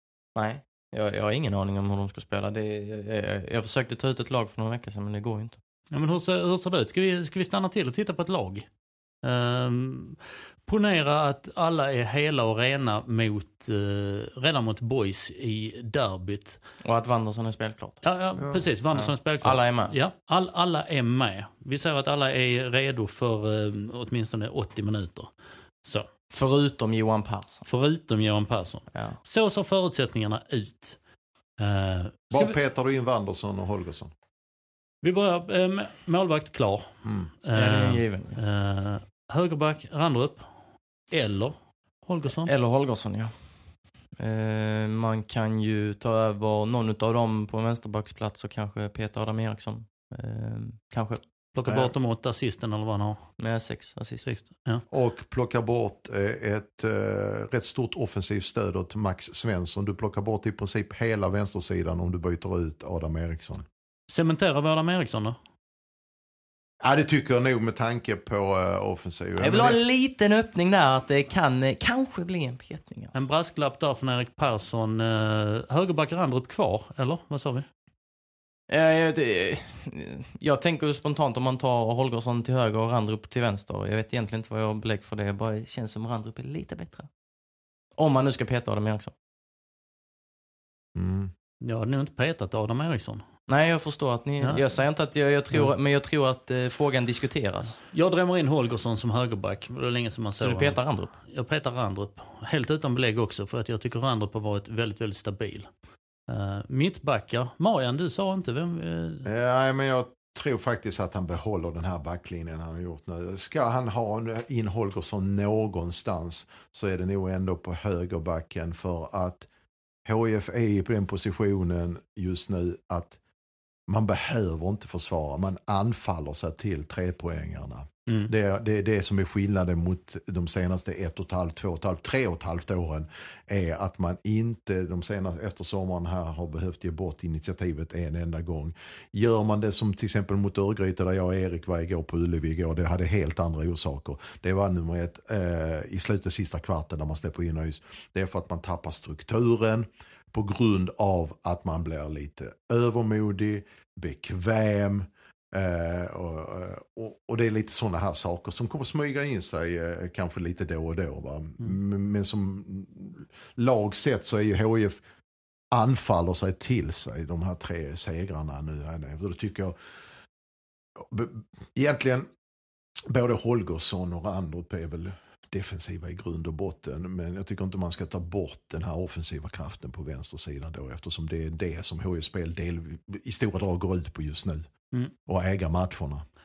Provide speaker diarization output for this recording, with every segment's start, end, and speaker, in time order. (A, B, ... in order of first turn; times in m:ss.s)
0:00.4-0:05.6 A
0:05.9-0:08.7 B
0:09.2-0:16.6 B
0:16.8-0:18.0 A
0:18.0-0:25.3 B
0:18.4-0:18.7 C
0:18.9-0:19.9 A
0:25.8-0:26.1 B
0:26.3-0:27.6 A
0:27.6-0:31.0 B
0:28.9-0:29.2 A
0:31.6-0:32.6 B
0:32.3-0:34.1 C
0:35.0-0:36.9 B
0:37.0-0:37.3 C
0:37.4-0:40.5 B
0:37.5-0:38.4 A
0:41.1-0:42.5 B
0:42.4-0:51.2 A
0:51.5-0:53.3 B
0:51.6-0:51.9 C
0:53.4-0:54.4 A
0:54.3-0:54.8 B
0:54.9-1:03.6 C
1:04.1-1:05.4 B
1:06.8-1:09.8 C
1:09.4-1:13.2 A
1:13.1-1:17.7 B
1:18.7-1:27.1 A
1:28.0-1:29.1 A
1:31.0-1:31.3 C
1:31.6-1:33.2 B
1:33.5-1:37.8 A
1:37.8-1:45.7 B
1:40.4-1:41.1 A
1:46.3-1:49.2 B
1:49.2-1:59.5 C
2:00.0-2:03.2 C
2:03.9-2:45.0 C
2:45.7-2:49.8 C
2:51.0-2:52.3 C
2:53.1-3:04.7 C
3:05.3-3:06.2 C